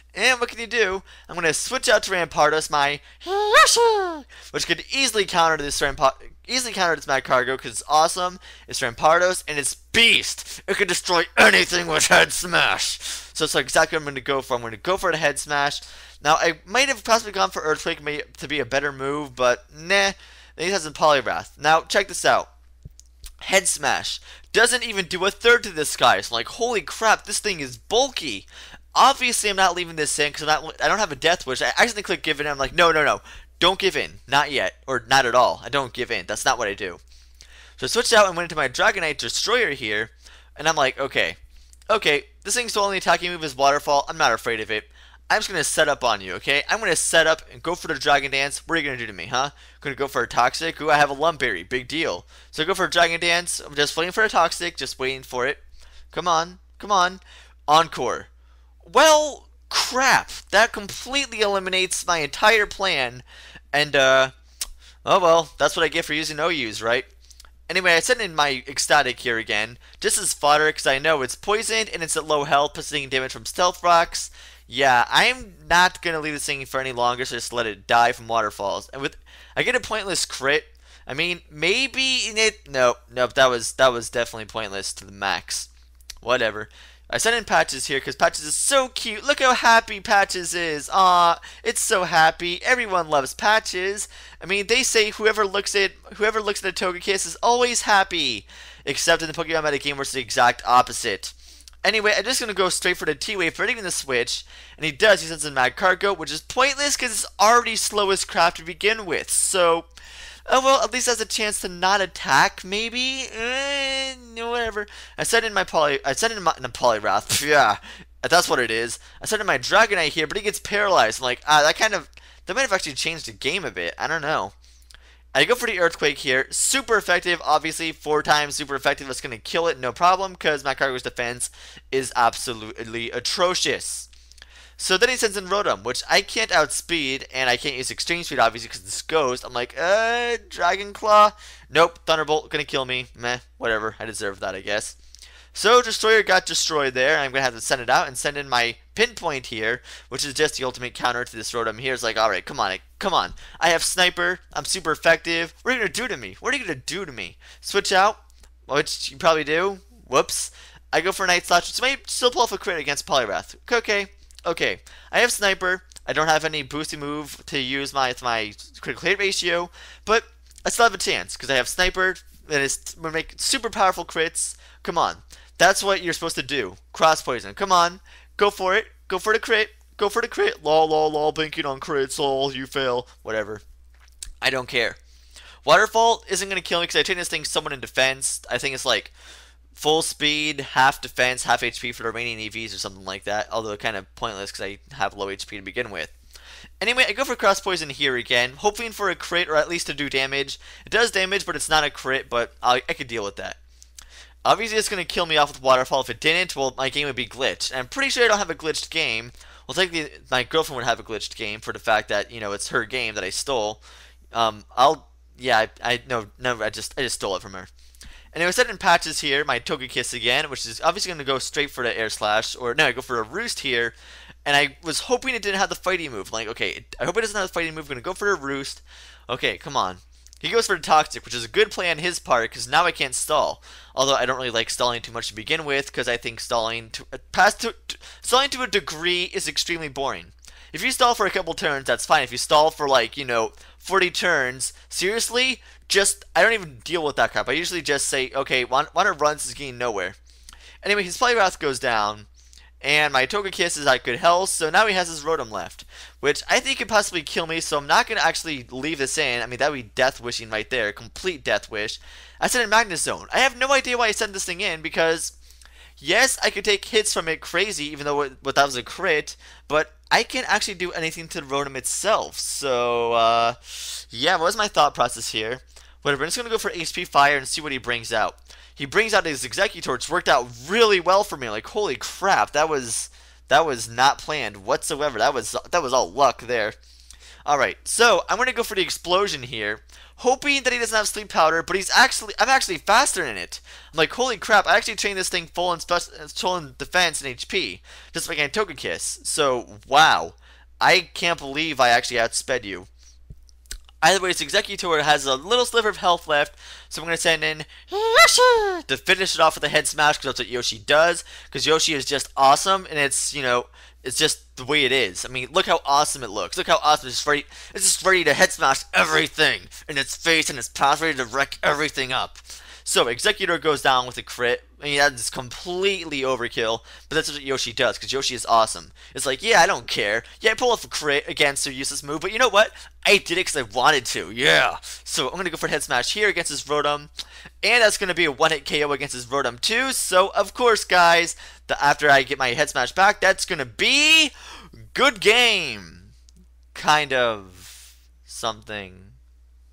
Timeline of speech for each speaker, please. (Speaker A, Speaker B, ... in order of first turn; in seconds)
Speaker A: 0.1-22.5, 23.4-37.0, 37.8-41.4, 41.9-55.6, 56.1-58.3, 58.9-64.3, 65.0-67.1, 67.7-85.7, 86.2-109.9, 110.5-124.5, 125.3-134.1, 134.8-144.9, 145.5-183.6, 184.4-185.0, 185.6-189.1, 189.7-196.1, 196.8-203.6, 204.4-213.8, 214.3-217.7, 218.3-250.2, 250.8-252.3, 252.8-265.3, 266.0-286.8, 287.4-302.9, 304.0-337.1, 337.6-344.3, 344.9-346.1, 346.7-349.1